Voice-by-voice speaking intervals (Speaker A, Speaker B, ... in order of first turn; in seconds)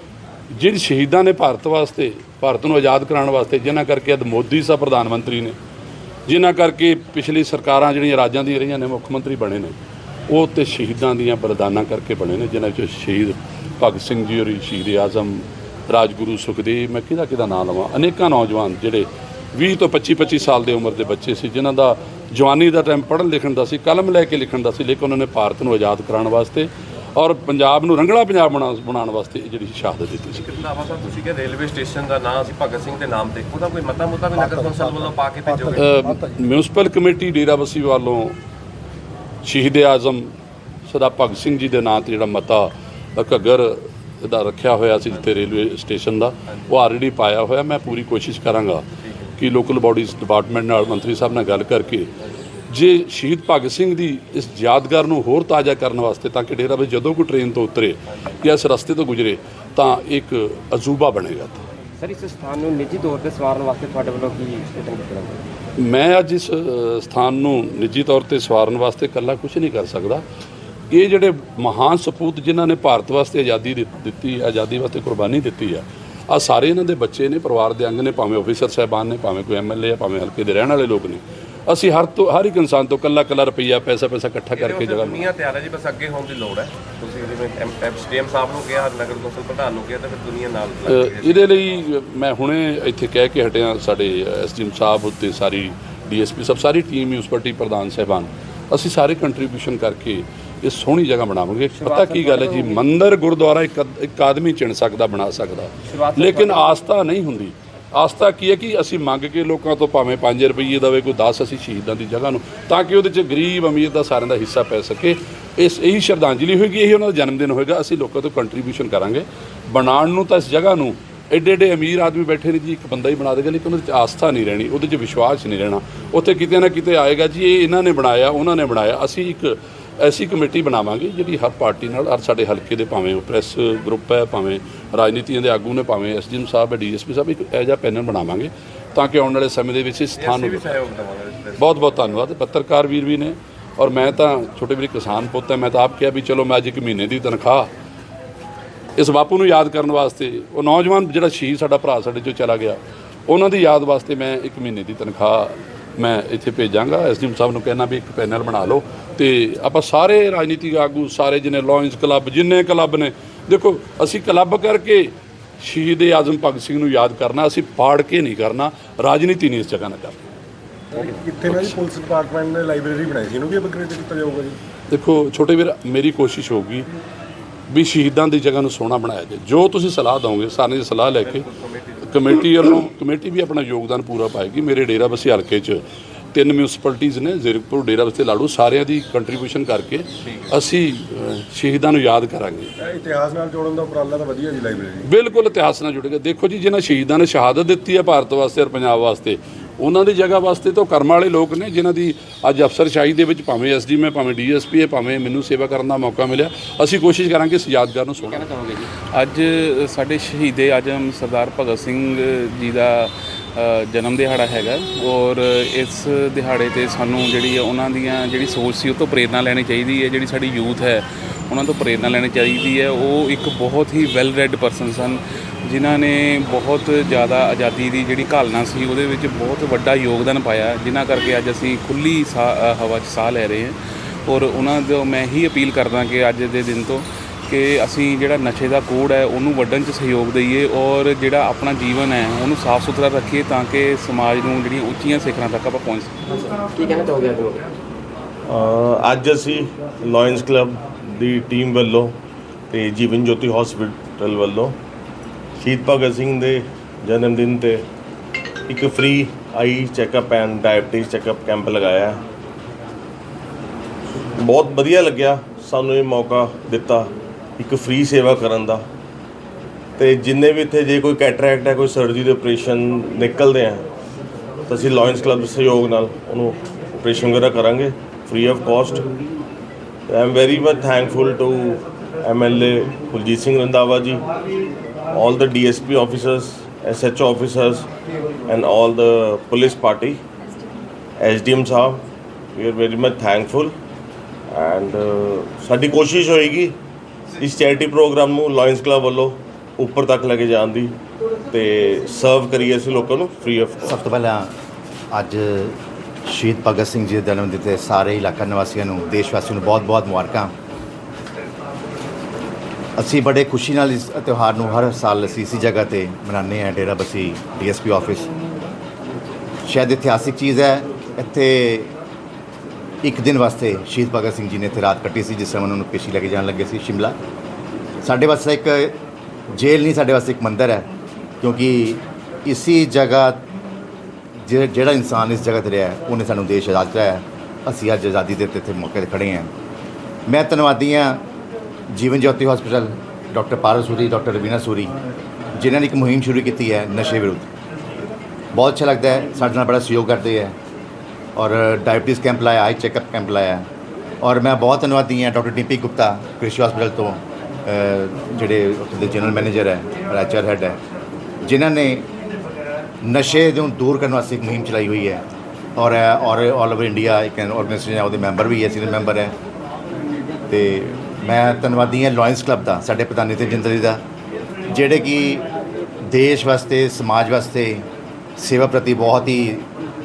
Speaker A: 0.5-5.5, 6.3-9.7, 10.3-30.4, 35.7-38.4, 39.4-40.3, 40.9-48.8, 49.4-52.1, 52.7-61.6, 65.8-70.2, 70.9-85.3, 90.9-140.8, 141.6-147.7, 149.0-170.2, 171.5-171.8, 174.9-176.9, 177.7-181.5, 182.0-185.8, 186.3-192.7, 195.0-208.5
Speaker B: 30.4-36.0, 84.5-91.5, 140.2-141.9, 181.4-182.2
Speaker C: 34.4-36.4, 170.9-174.6, 192.8-195.1
Speaker D: 62.0-65.4, 101.8-102.8, 105.9-106.8, 208.3-208.9, 246.3-247.7
Speaker E: 209.1-246.1
Speaker F: 248.5-252.2, 252.7-254.8, 255.6-257.9, 258.7-262.2, 264.4-268.8, 270.0-273.9, 274.7-279.1, 280.1-284.2, 285.1-287.9, 288.5-290.2, 291.2-293.7, 294.5-296.8, 297.4-301.0, 301.5-303.9
Speaker G: 303.9-304.5, 305.1-310.5, 313.0-318.3, 319.7-321.9, 323.0-327.2, 328.0-329.0, 329.5-330.9, 331.4-333.4, 334.5-339.5, 340.3-341.2, 341.9-344.9, 345.6-347.5, 348.5-350.6, 351.4-353.7, 354.2-360.8, 361.4-362.1, 363.0-365.2, 365.8-369.4, 370.5-374.0, 374.7-375.4, 376.1-377.9, 378.4-379.7